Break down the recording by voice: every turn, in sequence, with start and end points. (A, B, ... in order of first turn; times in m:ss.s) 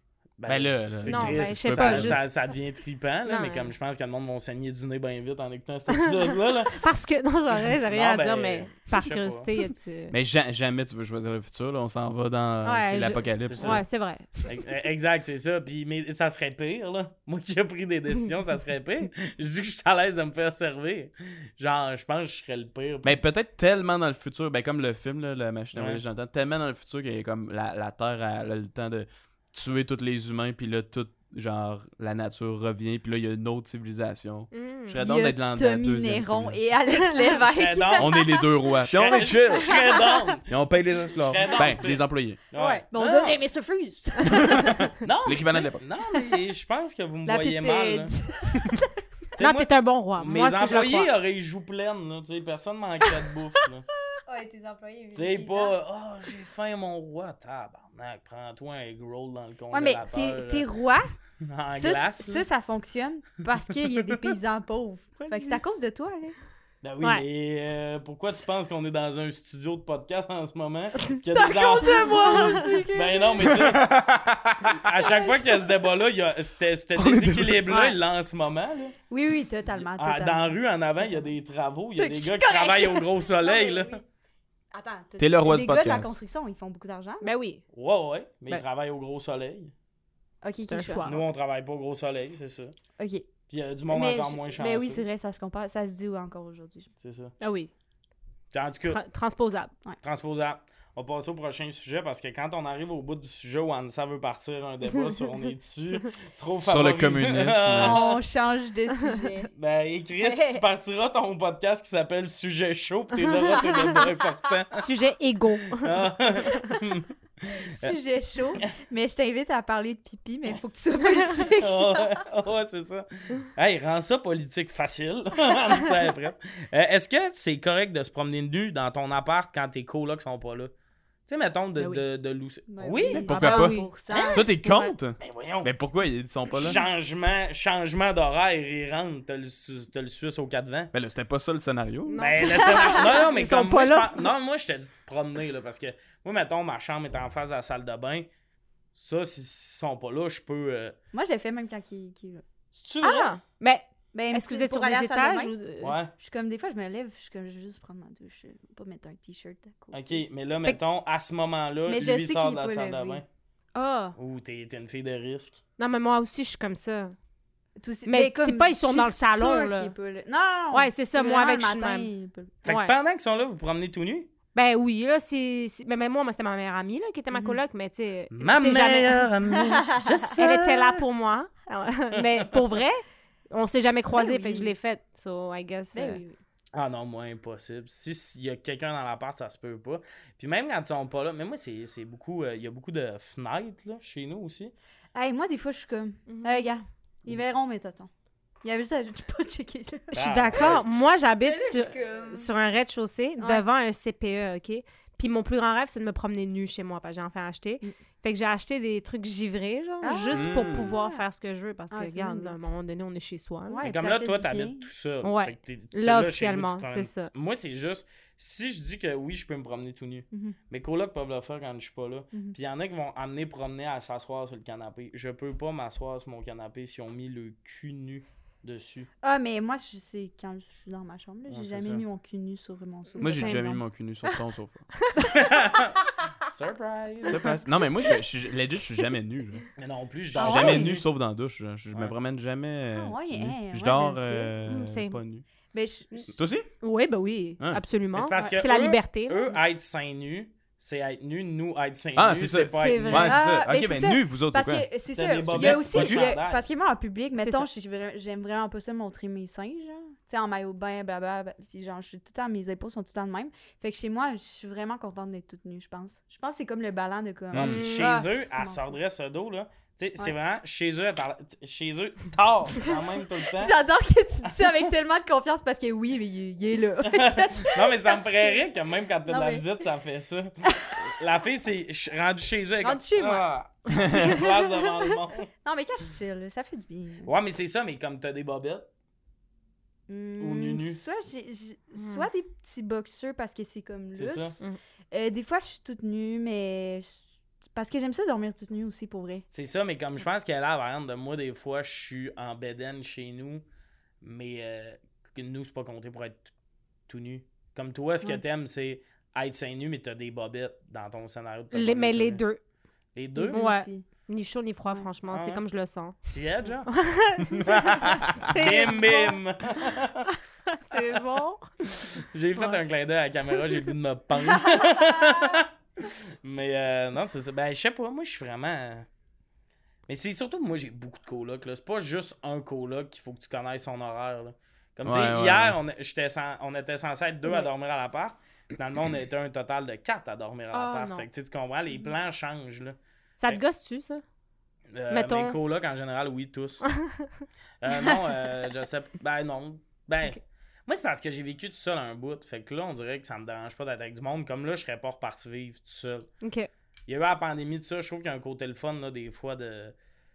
0:00.4-0:06.8 A
0:00.5-0:02.2 B
0:01.0-0:02.3 C
0:03.3-0:03.7 C
0:06.7-0:10.2 C
0:07.6-0:09.5 A
0:10.1-0:13.8 B
0:12.6-0:14.4 C
0:13.5-0:13.9 A
0:14.4-0:23.2 A
0:23.0-0:36.8 B
0:25.7-0:26.0 A
0:34.5-0:35.0 C
0:35.0-0:38.4 D
0:37.1-0:37.4 C
0:37.3-0:40.5 A
0:38.0-0:39.8 B
0:40.5-0:42.4 B
0:41.1-0:43.4 A
0:42.6-0:42.8 C
0:42.9-0:44.9 D
0:44.3-0:45.8 B
0:45.0-0:48.2 A
0:47.2-0:48.9 D
0:49.4-0:53.9 A
0:49.4-0:51.1 C
0:54.3-0:55.8 D
0:55.1-1:00.7 A
0:59.7-1:01.2 D
1:01.4-1:02.4 A
1:01.7-1:06.4 D
1:05.2-1:05.6 C
1:06.8-1:13.9 A
1:11.3-1:13.7 D
1:11.9-1:12.6 C
1:13.5-1:14.8 B
1:14.6-1:19.0 A
1:15.0-1:15.7 D
1:17.0-1:17.8 B
1:19.1-1:20.5 D
1:19.8-1:24.0 A
1:22.0-1:24.0 D
1:24.7-1:27.3 D
1:25.2-1:26.1 B
1:27.2-1:27.6 C
1:27.7-1:29.7 A
1:30.4-1:31.1 D
1:30.7-1:31.2 C
1:31.0-1:32.8 A
1:33.0-1:33.3 D
1:33.5-1:35.0 A
1:33.9-1:36.9 D
1:37.0-1:37.3 A
1:37.4-1:37.7 C
1:38.5-1:39.0 A
1:38.8-1:39.7 C
1:40.0-1:48.2 A
1:46.6-1:48.0 B
1:47.8-1:49.5 D
1:49.6-1:54.8 A
1:50.2-1:50.6 D
1:54.8-1:56.1 C
1:55.8-1:58.0 A
1:57.8-2:02.1 D
2:01.6-2:10.7 A
2:11.3-2:13.4 A
2:12.7-2:14.9 D
2:13.1-2:13.9 C
2:13.2-2:16.8 B
2:14.1-2:14.4 A
2:15.2-2:15.7 A
2:16.5-2:20.9 A
2:20.9-2:22.4 B
2:22.1-2:24.3 C
2:22.2-2:28.3 A
2:29.0-2:31.0 A
2:31.1-2:32.4 D
2:32.7-2:33.3 A
2:33.0-2:36.0 C
2:34.1-2:35.5 D
2:35.8-2:36.1 A
2:36.1-2:40.2 D
2:39.9-2:43.2 A
2:41.9-2:43.2 D
2:43.8-2:44.2 C
2:44.2-2:45.6 A
2:45.8-2:47.1 C
2:47.8-2:52.5 D
2:48.1-2:49.9 C
2:50.7-2:52.1 C
2:52.6-2:52.9 C
2:52.6-2:54.3 A
2:54.5-2:59.3 C
2:57.3-2:57.6 D
2:58.3-3:01.0 A
3:00.4-3:06.2 C
3:02.2-3:02.5 A
3:04.1-3:04.7 D
3:05.9-3:06.4 D
3:06.7-3:14.7 A
3:15.2-3:18.1 D
3:16.3-3:16.7 C
3:18.6-3:20.1 D
3:20.1-3:33.9 C
3:20.1-3:20.9 A
3:21.4-3:22.8 D
3:23.4-3:23.6 D
3:30.0-3:31.2 D
3:30.3-3:31.0 B
3:31.9-3:32.6 D
3:33.7-3:34.9 D
3:33.8-3:49.1 A
3:35.2-3:37.3 C
3:40.3-3:40.6 D
3:49.2-3:53.8 D
3:51.5-3:52.0 A
3:53.2-3:53.7 C
3:53.2-3:54.9 B
3:55.3-3:57.6 A
3:57.2-3:59.7 B
3:59.8-4:01.0 A
4:00.4-4:05.4 B
4:00.4-4:01.0 D
4:02.9-4:04.5 D
4:04.6-4:05.2 C
4:05.7-4:06.3 D
4:06.3-4:06.7 B
4:06.8-4:09.6 C
4:08.2-4:13.4 A
4:12.2-4:14.9 B
4:12.8-4:13.4 C
4:13.2-4:29.0 D
4:15.1-4:16.6 A
4:15.4-4:16.3 B
4:17.4-4:17.7 C
4:27.5-4:27.9 B
4:27.6-4:33.8 A
4:27.6-4:28.2 C
4:33.6-4:38.7 D
4:37.1-4:45.5 A
4:39.3-4:39.6 D
4:42.8-4:43.5 D
4:43.9-4:44.3 B
4:45.6-4:47.3 D
4:47.2-4:48.9 A
4:50.1-4:59.4 D
4:50.4-4:51.0 A
4:52.0-4:52.3 C
4:54.2-4:54.6 A
4:59.5-5:03.6 A
5:04.2-5:06.5 A
5:07.1-5:12.4 A
5:11.7-5:12.6 C
5:13.2-5:13.6 A
5:13.4-5:14.1 D
5:13.5-5:16.3 C
5:15.3-5:15.6 A
5:16.3-5:16.9 A
5:16.9-5:19.9 C
5:17.6-5:20.3 A
5:20.7-5:22.8 C
5:22.2-5:29.1 A
5:30.1-5:43.6 A
5:35.0-5:35.8 B
5:40.7-5:41.3 C
5:43.4-5:44.2 C
5:44.9-5:46.9 A
5:45.1-5:45.6 C
5:47.0-5:47.4 C
5:47.8-5:56.3 A
5:56.4-5:56.7 C
5:57.1-6:00.0 A